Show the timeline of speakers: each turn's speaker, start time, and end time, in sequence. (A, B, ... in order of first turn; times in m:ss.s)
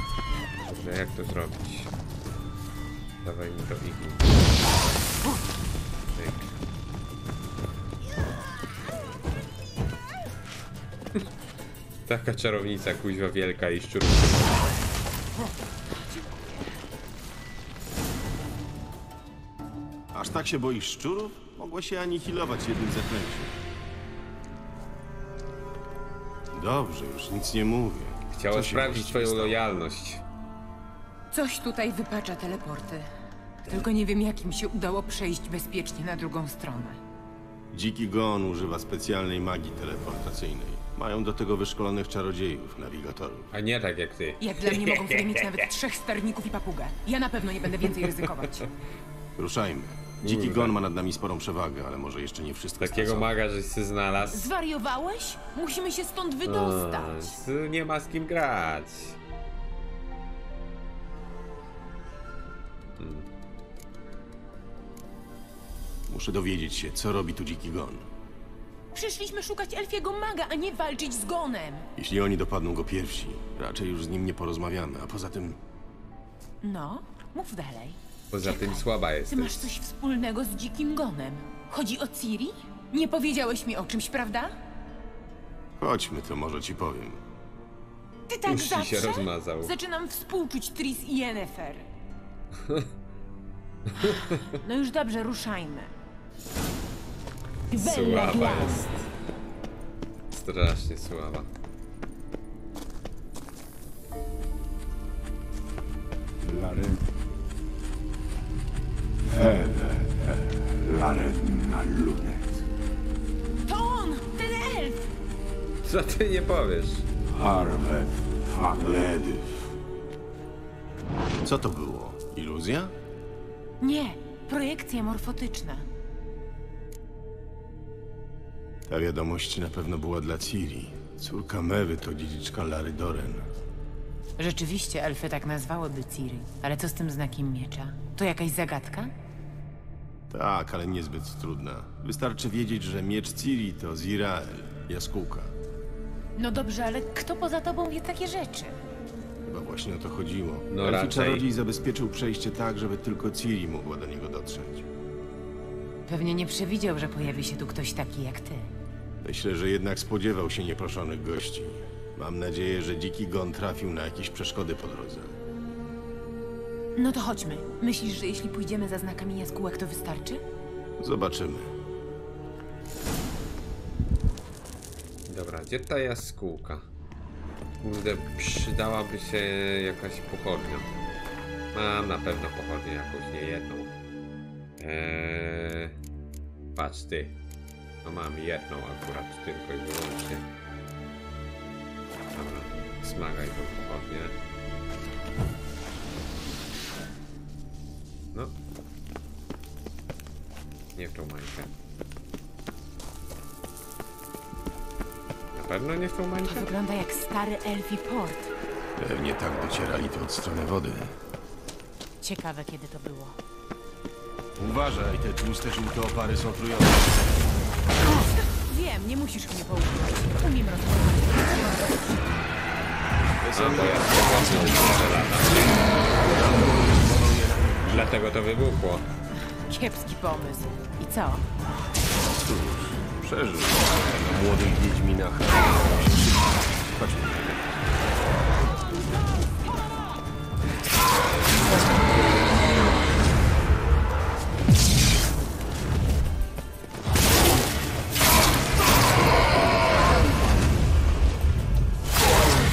0:00.6-0:01.9 A
0:03.2-0:04.5 A
0:06.2-0:06.5 A
0:12.0-0:14.6 A
0:15.9-0:16.8 B
0:20.1-0:23.6 C
0:26.5-0:29.6 C
0:28.3-0:30.2 A
0:31.3-0:33.1 B
0:33.6-0:37.0 B
0:37.7-0:43.5 C
0:43.5-0:45.4 A
0:44.4-0:48.7 B
0:49.4-0:53.3 C
0:50.2-0:50.7 A
0:52.8-0:54.5 A
0:54.3-0:57.4 B
0:56.4-0:59.2 A
1:03.0-1:03.2 A
1:06.1-1:08.1 C
1:08.9-1:11.9 B
1:12.0-1:15.6 C
1:16.6-1:24.5 B
1:18.3-1:19.7 A
1:25.8-1:27.2 C
1:28.3-1:31.9 B
1:28.4-1:29.7 A
1:34.0-1:34.5 A
1:34.0-1:35.9 B
1:37.7-1:38.9 B
1:37.8-1:39.1 A
1:40.3-1:41.5 A
1:46.4-1:47.0 D
1:49.2-1:52.6 D
1:53.7-1:55.0 B
1:55.8-1:57.0 A
1:57.3-1:59.7 D
2:01.4-2:02.9 C
2:03.8-2:05.9 B
2:08.9-2:13.5 C
2:14.4-2:19.1 B
2:20.3-2:25.5 C
2:26.4-2:28.8 B
2:29.4-2:34.9 C
2:30.7-2:31.4 A
2:36.1-2:38.7 B
2:39.2-2:45.4 C
2:47.0-2:50.4 B
2:51.0-2:51.7 C
2:55.3-2:56.8 A
2:57.8-3:00.9 A
3:01.7-3:03.9 A
3:04.8-3:05.9 A
3:06.7-3:07.3 A
3:08.0-3:10.4 A
3:12.4-3:14.4 A
3:21.0-3:21.7 A
3:25.5-3:26.7 A
3:26.4-3:28.5 B
3:29.0-3:31.2 C
3:32.2-3:33.4 B
3:34.6-3:37.4 C
3:38.1-3:42.2 B
3:43.4-3:48.1 C
3:43.5-3:45.8 A
3:47.9-3:49.0 A
3:49.5-3:51.4 B
3:52.2-3:57.7 C